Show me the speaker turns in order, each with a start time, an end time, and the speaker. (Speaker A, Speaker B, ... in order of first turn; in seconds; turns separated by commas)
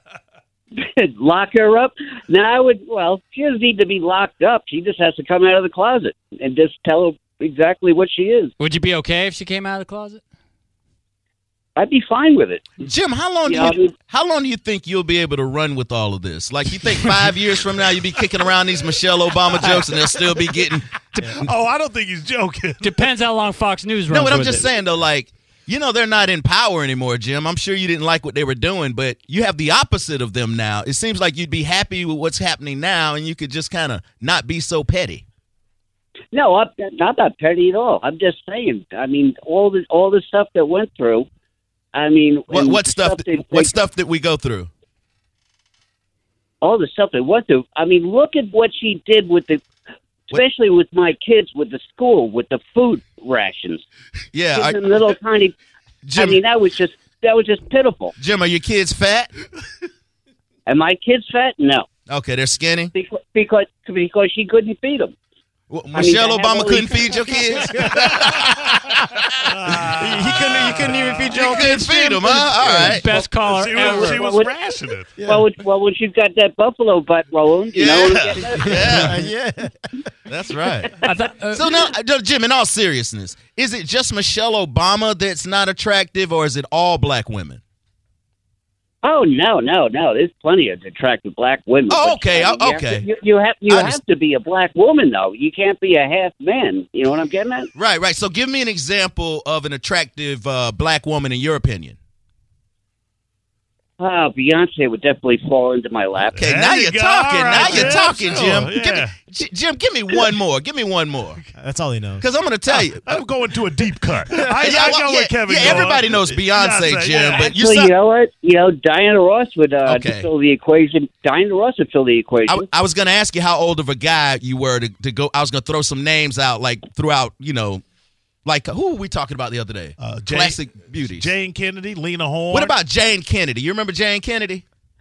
Speaker A: 0.8-8.5, Speaker B: 8.6-10.2, Speaker A: 11.8-12.8, Speaker C: 12.8-20.9, Speaker A: 13.5-13.9, Speaker D: 19.7-20.7, Speaker D: 21.2-23.1, Speaker B: 22.8-24.7, Speaker C: 24.1-35.2, Speaker A: 36.3-41.3, Speaker A: 41.9-43.7, Speaker C: 42.5-44.7, Speaker A: 46.6-49.6, Speaker A: 50.3-53.8, Speaker C: 54.3-55.0, Speaker A: 54.5-55.5, Speaker C: 56.0-56.4, Speaker A: 56.1-58.1, Speaker C: 58.2-59.3, Speaker A: 60.7-61.9, Speaker C: 62.1-62.9, Speaker A: 62.9-65.2, Speaker C: 65.7-69.5, Speaker A: 65.9-67.0, Speaker D: 68.1-68.8, Speaker D: 69.5-71.3, Speaker E: 69.9-73.0, Speaker C: 70.6-73.1, Speaker B: 72.8-74.3, Speaker D: 73.2-75.2, Speaker A: 73.8-74.5, Speaker E: 75.2-75.5, Speaker A: 75.2-79.0, Speaker C: 77.7-79.2, Speaker D: 77.8-78.5, Speaker E: 78.4-80.1, Speaker C: 80.3-81.0, Speaker B: 81.0-81.7, Speaker C: 81.5-87.6, Speaker A: 89.0-97.7, Speaker C: 91.9-93.1, Speaker C: 93.7-94.0, Speaker C: 97.8-102.0, Speaker A: 104.0-106.4, Speaker D: 106.3-109.2, Speaker C: 106.4-111.4, Speaker E: 111.6-112.3, Speaker C: 112.2-113.2, Speaker D: 112.7-117.5, Speaker C: 114.6-117.9, Speaker A: 117.4-122.7, Speaker C: 119.8-120.3, Speaker C: 122.5-127.8, Speaker C: 128.4-131.3, Speaker D: 130.0-132.8, Speaker C: 132.5-134.6